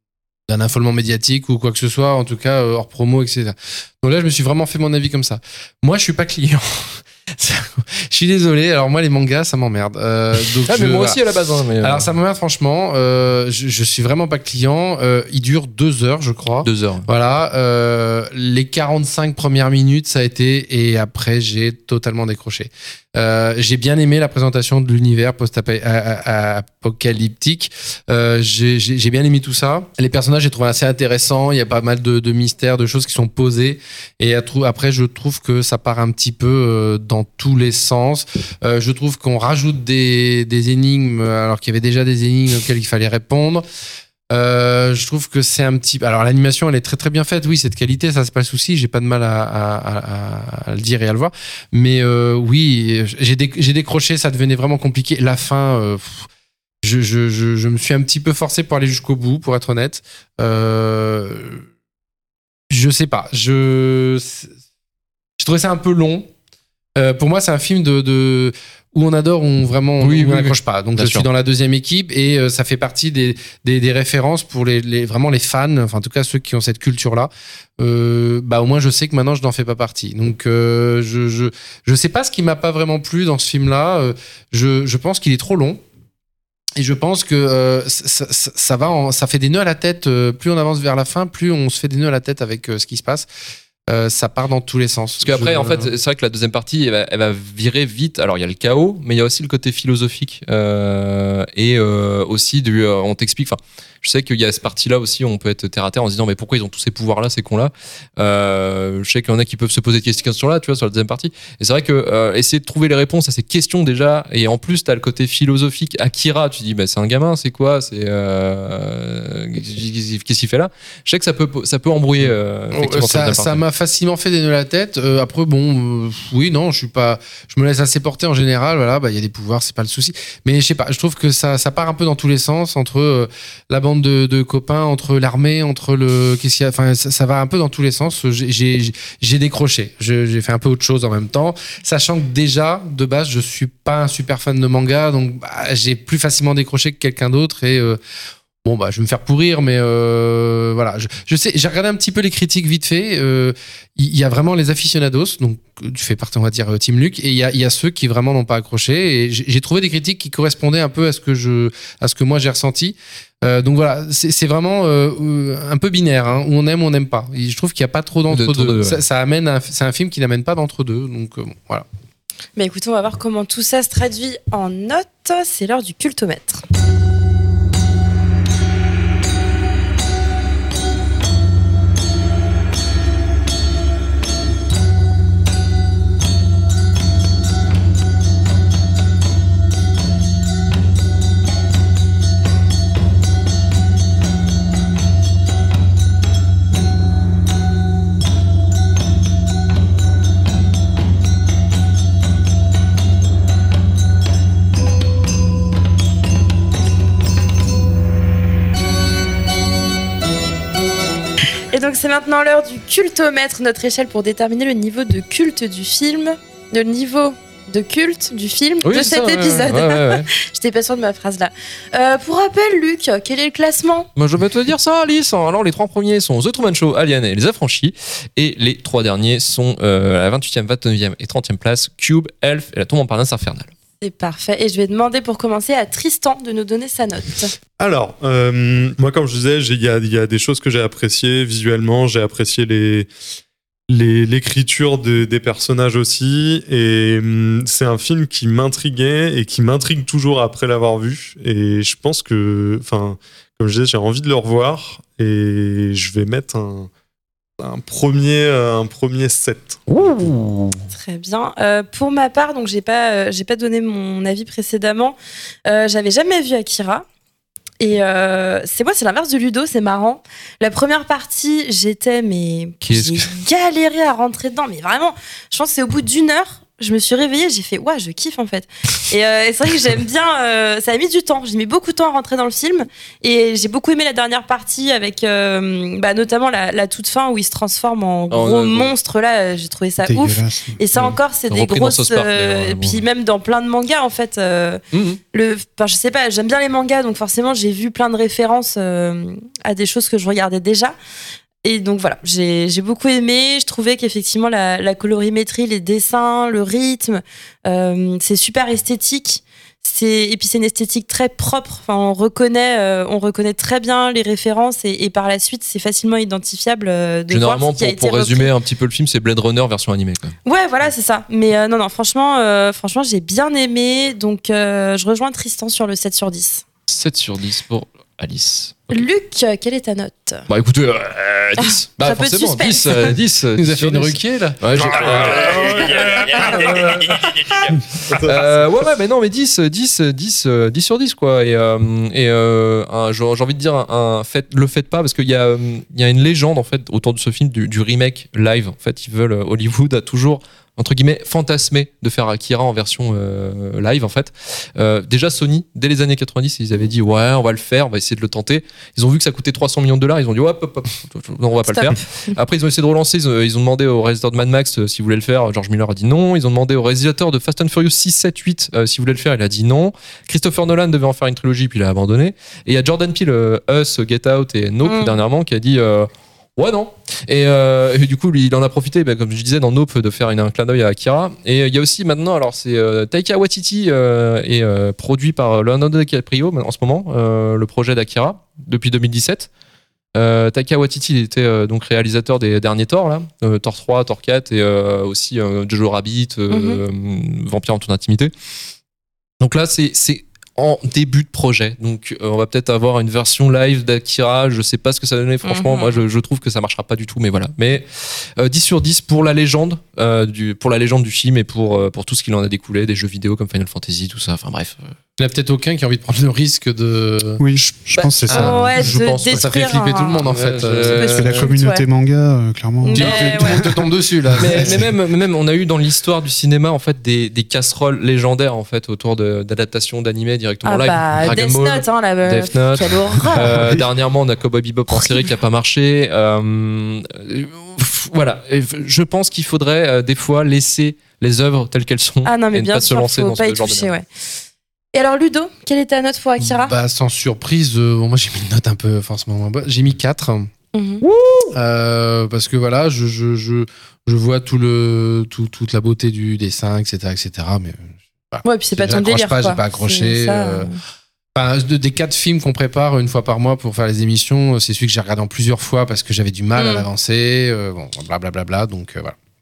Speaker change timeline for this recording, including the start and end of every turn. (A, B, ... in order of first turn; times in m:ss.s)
0:00.5-0:11.2 A
0:10.6-0:12.1 B
0:11.8-0:43.6 A
0:16.6-0:17.1 B
0:44.3-0:56.3 A
0:56.8-1:01.7 A
1:02.7-1:04.5 A
1:05.4-1:06.3 A
1:07.0-1:25.8 A
1:10.0-1:11.3 B
1:26.8-1:33.3 A
1:33.9-1:35.9 A
1:35.2-2:03.6 B
2:02.7-2:28.0 A
2:28.6-2:51.9 A
2:48.3-2:49.0 B
2:52.6-2:56.6 C
3:31.7-3:44.1 C
3:38.8-3:40.3 B
3:44.2-3:53.7 B
3:54.0-3:57.6 C
3:57.8-4:03.1 D
4:03.9-4:16.9 D
4:17.6-4:19.8 D
4:19.9-4:20.8 B
4:20.9-4:27.1 C
4:27.8-4:54.8 C
4:32.8-4:33.3 B
4:48.3-4:48.9 B
4:50.1-4:50.8 E
4:51.0-4:53.0 B
4:54.9-4:55.2 B
4:55.3-5:01.0 C
5:01.6-5:18.5 C
5:17.3-5:20.4 B
5:20.5-5:26.6 C
5:26.9-5:29.0 B
5:28.9-5:30.5 C
5:30.5-6:29.5 B
5:31.6-5:33.1 C
5:33.6-5:35.9 A
5:35.1-5:37.2 D
5:38.1-5:38.6 D
6:01.6-6:02.3 C
6:14.8-6:15.2 C
6:30.2-6:38.3 B
6:36.5-6:36.8 C
6:39.4-6:54.9 B
6:45.5-6:46.0 C
6:55.2-6:57.5 A
6:57.4-6:58.7 E
6:58.2-7:01.5 A
6:58.3-7:00.3 C
6:58.3-6:59.5 B
7:00.1-7:01.2 B
7:00.8-7:01.9 C
7:01.2-7:03.8 E
7:02.8-7:03.6 C
7:02.9-7:04.8 A
7:04.4-7:04.8 E
7:04.4-7:23.9 B
7:10.6-7:13.6 C
7:13.5-7:13.8 E
7:14.9-7:15.3 C
7:22.2-7:24.1 C
7:25.0-7:26.8 C
7:26.4-7:30.5 A
7:30.7-7:31.0 C
7:31.0-7:31.5 B
7:31.5-7:40.8 A
7:38.4-7:40.8 C
7:41.4-7:49.2 A
7:46.6-7:46.9 C